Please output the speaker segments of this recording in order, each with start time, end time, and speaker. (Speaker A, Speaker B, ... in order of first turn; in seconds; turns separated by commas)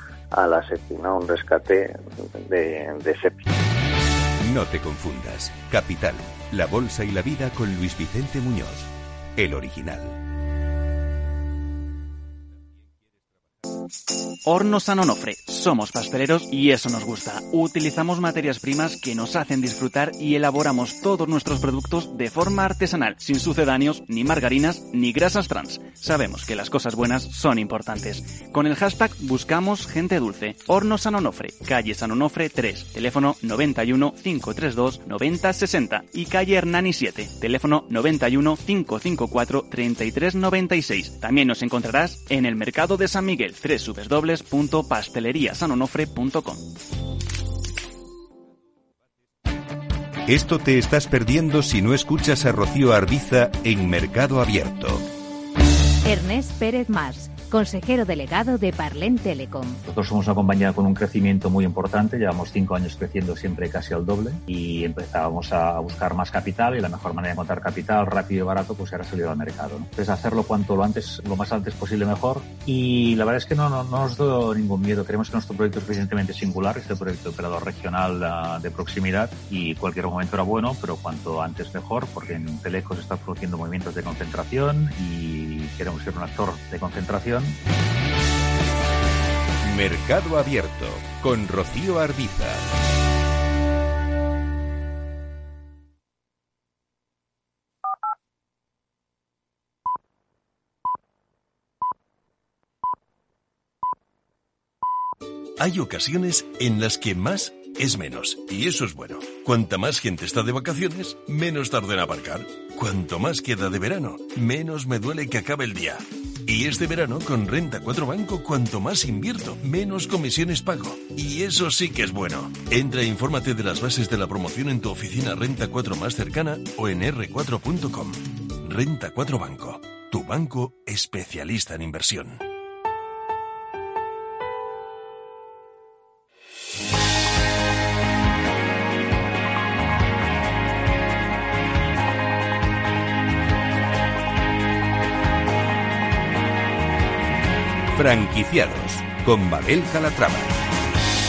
Speaker A: 0.3-3.5, Speaker B: 4.4-10.2, Speaker C: 14.4-46.7, Speaker B: 50.3-55.0, Speaker D: 56.0-59.8, Speaker E: 59.9-87.6, Speaker B: 89.6-92.7, Speaker F: 105.6-132.4, Speaker B: 147.9-150.5